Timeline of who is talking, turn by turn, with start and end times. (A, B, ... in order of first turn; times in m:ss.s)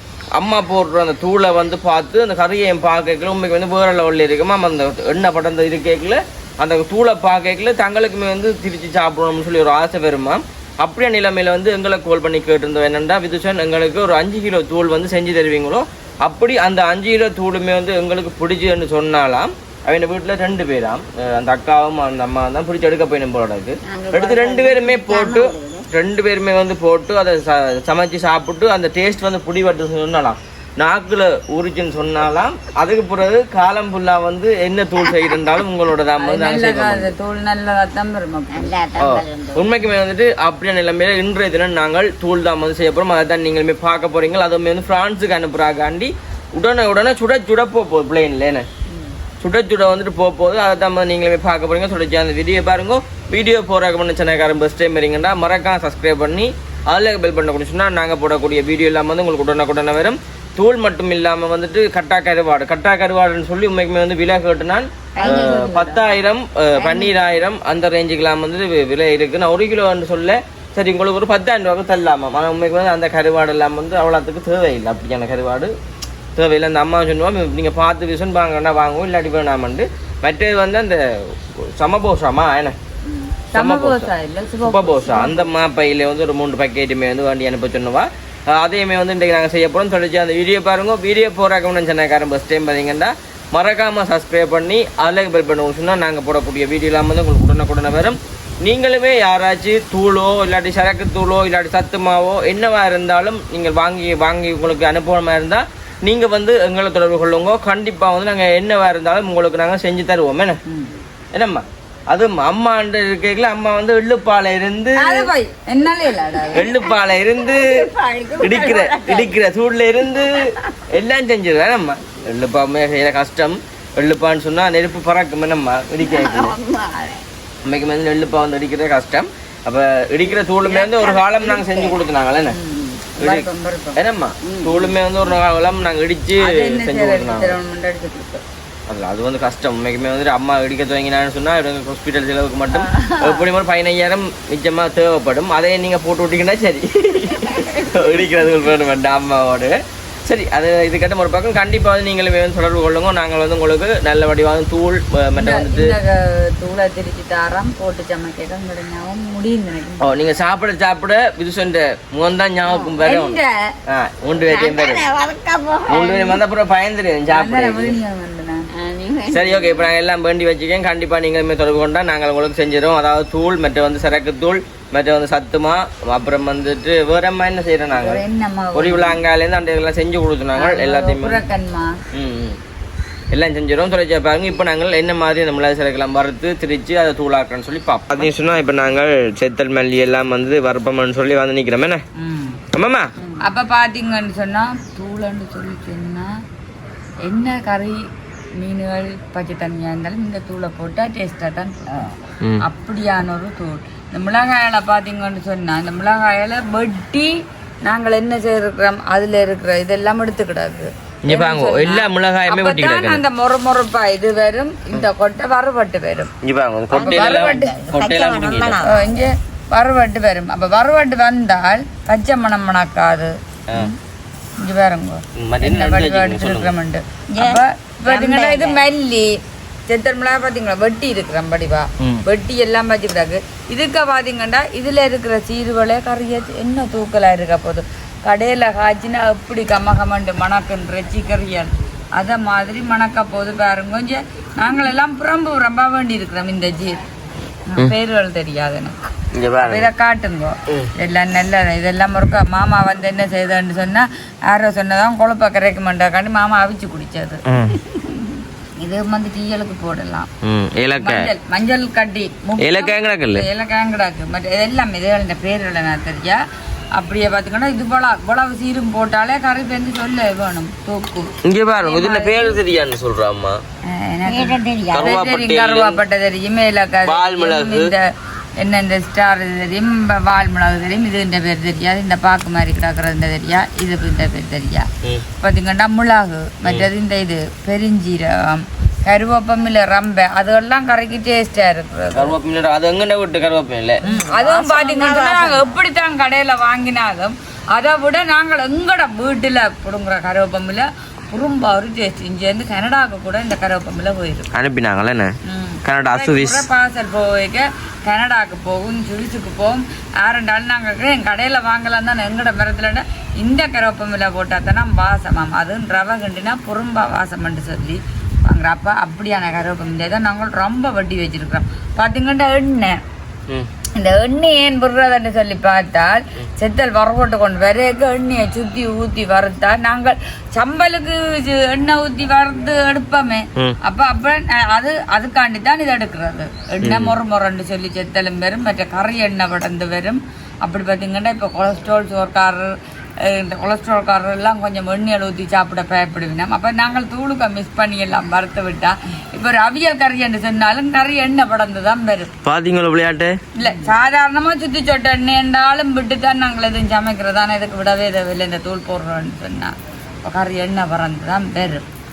0:00.3-0:37.1 A
0:23.8-0:25.8 B
0:35.0-0:35.4 B
0:36.2-0:38.8 C
0:38.5-0:39.7 B
0:39.0-0:48.7 A
0:48.9-0:49.2 B
0:49.4-1:15.7 A
1:05.1-1:06.2 B
1:05.2-1:05.7 C
1:06.8-1:07.2 B
1:16.3-1:22.8 A
1:23.5-1:25.5 C
1:23.5-1:24.1 A
1:24.6-1:50.6 A
1:50.7-1:50.9 C
1:51.3-1:55.3 A
1:55.0-1:56.7 C
1:56.5-1:57.8 A
1:56.7-1:59.4 B
1:58.4-2:06.5 A
2:00.1-2:00.8 B
2:06.0-2:07.2 B
2:07.6-2:12.6 A
2:10.6-2:12.0 B
2:12.6-2:13.0 B
2:13.1-2:14.0 C
2:13.2-2:17.6 A
2:14.4-2:14.9 B
2:16.4-2:18.4 C
2:18.9-2:35.9 A
2:22.9-2:23.4 B
2:27.4-2:28.1 B
2:35.4-2:40.1 C
2:40.0-2:45.0 A
2:42.6-2:42.9 B
2:43.0-2:43.6 C
2:44.4-2:46.4 B
2:45.9-2:47.9 A
2:47.3-2:48.7 C
2:48.7-2:49.9 B
2:49.3-2:58.2 A
2:58.0-2:59.2 C
2:58.7-3:01.4 A
3:00.6-3:02.0 C
3:02.1-3:02.6 A
3:03.3-3:12.0 A
3:12.2-3:12.6 C
3:12.7-3:13.1 A
3:13.2-3:13.5 B
3:13.4-3:16.3 C
3:17.2-3:36.3 C
3:21.9-3:22.1 B
3:31.2-3:33.2 A
3:36.4-3:38.8 A
3:36.9-3:39.2 B
3:37.0-3:37.8 C
3:38.8-3:43.9 C
3:44.6-4:07.0 C
3:45.4-3:46.7 A
3:47.3-3:48.8 B
4:07.7-4:09.0 C
4:09.3-4:09.9 A
4:09.6-4:17.4 C
4:17.5-4:17.8 A
4:18.8-4:20.3 C
4:20.4-4:21.3 A
4:21.0-4:26.4 C
4:22.6-4:23.4 A
4:27.0-4:32.6 C
4:31.4-4:33.6 A
4:33.9-4:38.0 C
4:34.2-4:35.2 B
4:34.9-4:36.0 A
4:37.0-4:37.9 A
4:38.6-4:44.9 C
4:45.4-4:52.3 C
4:52.1-4:54.0 A
4:54.0-4:55.7 B
4:54.0-5:04.5 C
5:04.5-5:05.3 A
5:05.4-5:23.0 C
5:05.8-5:06.6 A
5:24.0-5:52.3 C
5:36.8-5:37.2 A
5:52.4-5:53.4 A
5:53.6-5:59.7 C
6:00.2-6:01.8 C